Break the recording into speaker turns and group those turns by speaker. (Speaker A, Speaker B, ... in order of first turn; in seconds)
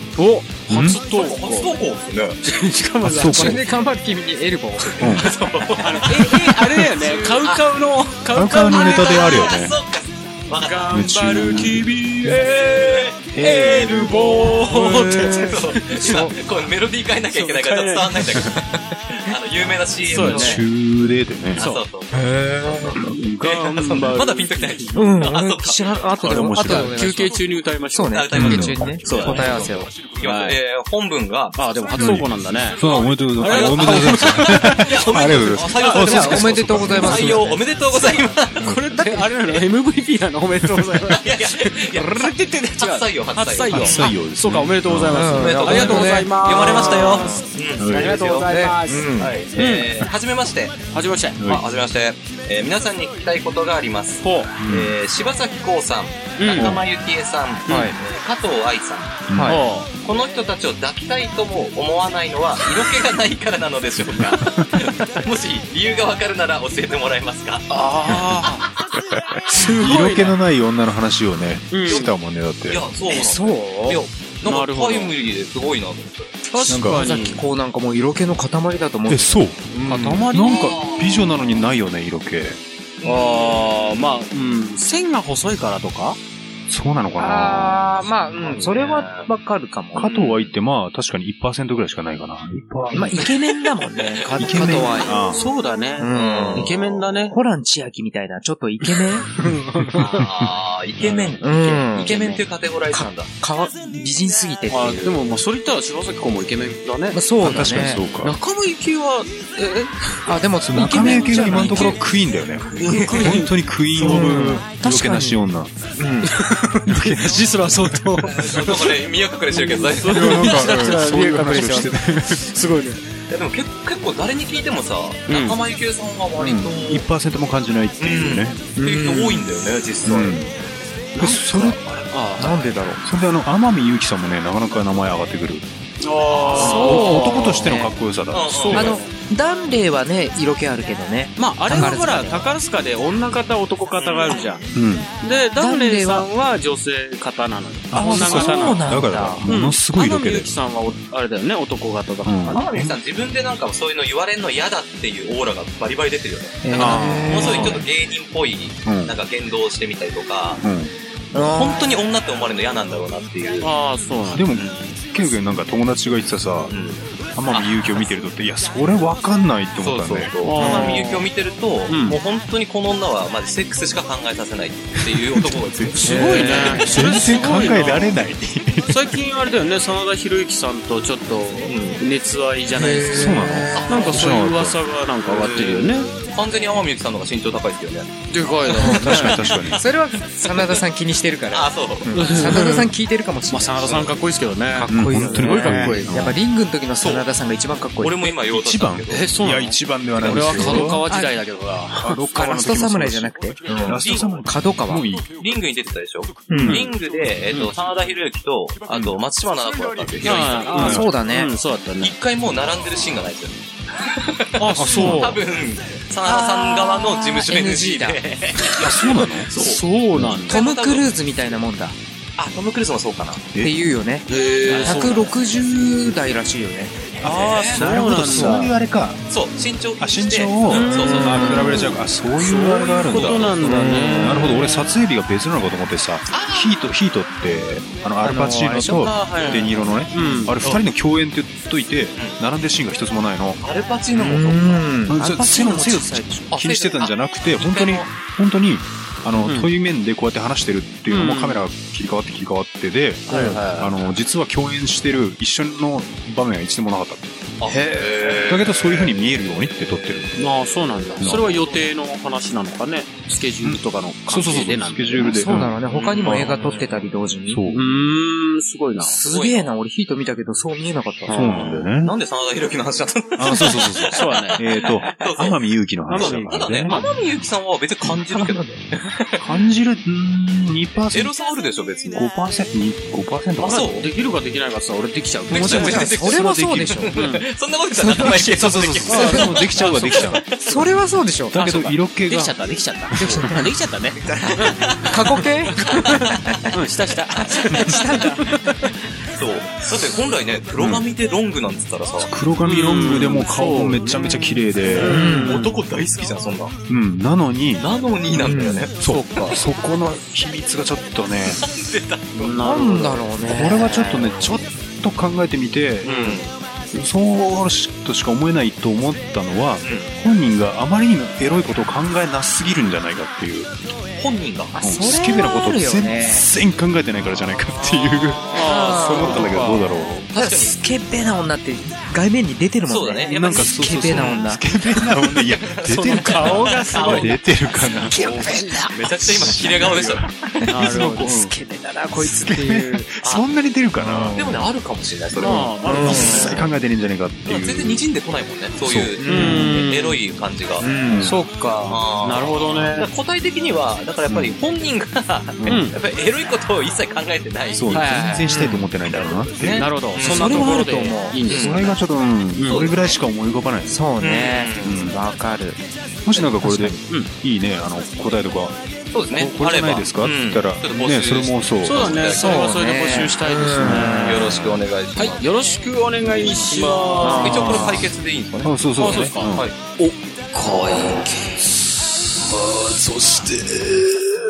Speaker A: 0.1-1.7, 2.4-3.6, 5.8-9.5, 10.6-16.2, 17.3-18.4, 20.0-20.6, 21.5-21.8, 23.1-25.2, 26.5-28.4, 29.0-29.5, 30.2-30.6, 31.5-32.8, 33.4-34.8, 38.6-49.9, 50.9-51.4, 54.2-54.5, 56.4-56.7, 59.4-59.9, 67.7-68.7, 69.5-70.3, 71.7-72.1, 74.4-75.1, 76.5-77.4, 79.8-80.8, 83.0-86.2, 94.4-97.4, 99.4-100.2, 104.7-110.3, 110.8-112.0, 112.7-114.5, 116.3-118.8, 119.5-123.0, 125.3-125.6, 131.1-132.6, 136.0-137.8, 138.5-139.1, 141.4-144.6, 145.2-148.9, 149.4-152.6, 157.1-157.7, 163.6-164.4, 170.4-171.3, 171.9-172.2, 176.0-178.2, 178.9-186.1, 188.3-189.3, 192.1-192.9, 193.5-196.3, 199.1-202.2, 210.2-212.2, 214.6-215.4, 219.5-220.6, 224.3-225.3, 227.2-228.7, 230.7-234.7, 238.8-240.7, 249.4-249.7, 251.1-251.6, 253.3-253.9, 260.4-265.4, 266.2-266.6, 267.7-269.2, 271.3-271.8, 274.1-274.6, 276.1-277.2, 283.6-286.1, 287.1-287.4, 289.1-290.3, 291.5-294.8, 296.7-298.6, 302.6-305.8, 309.0-309.6, 312.3-313.2, 316.0-316.4, 328.5-329.9, 335.9-337.3, 340.7-341.3, 345.4-346.6, 349.2-350.2, 351.2-353.1, 355.6-355.9, 357.9-358.5, 359.7-361.9, 362.5-362.9, 371.8-374.5, 375.1-377.9, 379.0-381.8, 382.4-382.6
Speaker B: 0.7-1.0, 3.0-3.6, 5.0-5.3, 8.3-9.8, 10.9-11.9, 13.3-14.3, 20.2-21.6, 26.2-27.0, 28.3-28.9, 31.9-37.4, 38.6-38.8, 40.7-40.9, 43.7-46.0, 47.8-48.3, 51.4-51.6, 54.6-54.9, 56.5-56.8, 59.3-59.6, 69.2-72.8, 76.7-77.0, 79.1-79.7, 80.3-82.6, 86.7-88.0, 89.9-93.3, 94.4-95.4, 100.2-100.5, 107.4-108.4, 110.6-115.8, 116.3-118.6, 120.0-122.5, 126.7-128.6, 130.0-130.5, 131.2-132.1, 133.0-135.7, 136.7-139.0, 141.7-142.0, 144.7-145.1, 147.9-150.5, 152.2-153.0, 156.7-157.8, 158.8-159.2, 160.6-160.9, 164.3-166.8, 167.3-171.0, 175.0-179.2, 183.1-184.8, 188.8-189.8, 194.9-196.4, 198.5-201.0, 202.0-205.3, 206.5-206.9, 208.9-209.2, 210.7-211.1, 214.7-215.4, 218.7-219.5, 220.1-220.4, 227.2-229.2, 230.0-243.6, 245.1-257.3, 258.5-260.4, 261.2-261.6, 263.6-266.6, 267.5-267.8, 271.3-272.1, 273.4-276.9, 279.4-281.3, 282.1-283.9, 285.5-287.1, 288.3-290.5, 291.5-292.6, 293.1-293.4, 300.8-301.0, 302.2-305.2, 306.9-311.6, 313.4-316.3, 316.9-323.7, 324.8-330.3, 333.2-338.3, 339.1-341.5, 342.1-344.4, 345.4-348.0, 348.8-349.7, 351.0-351.4, 354.3-354.6, 355.6-355.9, 357.7-360.5, 361.4-364.0, 364.8-365.2, 366.2-368.8, 369.3-372.2, 373.8-374.0, 377.4-378.1, 378.6-379.7, 382.4-384.3
Speaker C: 1.0-2.4, 5.0-7.6, 8.7-11.5, 12.2-20.6, 21.5-26.3, 28.0-32.1, 32.8-38.7, 41.2-44.1, 45.3-48.5, 49.2-50.8, 51.4-59.3, 60.0-67.7, 71.9-72.1, 72.7-76.4, 80.4-81.3, 83.0-84.0, 90.0-90.5, 96.1-97.0, 100.0-103.3, 118.3-120.5, 123.3-127.0, 128.0-130.4, 136.4-137.0, 138.3-138.9, 144.0-144.5, 152.5-160.6, 161.4-163.7, 164.5-165.0, 166.7-168.1, 169.8-176.9, 181.6-182.0, 183.7-184.1, 185.2-188.1, 188.9-189.8, 190.4-190.8, 191.5-192.6, 197.0-197.2, 198.0-199.3, 203.9-204.4, 205.3-210.8, 212.0-219.8, 220.5-221.1, 222.4-223.5, 224.7-225.2, 227.3-227.8, 229.3-231.8, 233.1-233.5, 236.3-236.8, 239.4-239.7, 242.1-242.4, 243.6-244.9, 246.5-248.1, 257.6-259.1, 265.9-267.0, 269.3-269.7, 271.5-275.6, 276.1-279.4, 281.1-282.2, 283.6-284.1, 285.5-290.8, 294.3-295.4, 299.3-302.3, 305.1-306.7, 307.8-309.5, 311.5-312.6, 316.0-316.5, 319.8-320.1, 324.1-324.7, 327.8-329.5, 330.3-330.8, 332.9-334.5, 335.4-337.4, 338.2-340.7, 344.3-346.6, 347.4-350.9, 351.9-358.1, 359.0-360.7, 361.5-361.8, 362.7-363.1, 364.2-365.0, 369.1-373.3, 373.9-375.5, 376.7-378.7
Speaker D: 3.3-5.3, 14.7-16.3, 20.3-20.6, 22.1-23.1, 24.9-29.9, 35.8-37.5, 45.1-47.4, 48.4-49.4, 57.7-57.9, 59.3-59.6, 73.1-74.0, 76.7-80.2, 87.2-90.1, 92.9-95.2, 96.0-96.8, 97.3-99.3, 101.1-105.2, 107.1-108.0, 110.2-112.0, 114.0-115.4, 116.0-116.3, 120.6-121.9, 126.4-126.7, 128.8-129.4, 132.4-133.0, 136.5-137.9, 138.7-142.5, 145.6-146.3, 147.9-149.4, 156.6-157.8, 161.3-161.9, 176.0-176.7, 182.7-184.2, 188.8-194.2, 194.7-198.3, 200.4-201.4, 202.3-205.1, 206.5-206.8, 210.7-211.5, 216.2-218.2, 220.5-221.9, 223.6-224.3, 224.8-227.2, 228.3-228.6, 231.1-231.7, 233.6-234.6, 238.2-239.1, 244.1-246.4, 257.7-258.4, 265.2-267.6, 269.0-271.4, 285.6-287.1, 288.0-288.4, 289.1-289.6, 290.6-291.6, 293.2-293.7, 295.1-296.6, 297.7-298.6, 305.0-305.6, 308.3-308.9, 312.6-314.4, 324.7-326.4, 328.6-329.4, 330.4-334.6, 336.4-337.1, 338.0-339.5, 340.8-343.1, 344.0-344.7, 345.8-346.6, 349.2-349.7, 350.8-351.4, 358.4-358.9, 360.2-361.4, 363.9-365.8, 366.3-367.0, 372.3-374.6, 376.7-378.0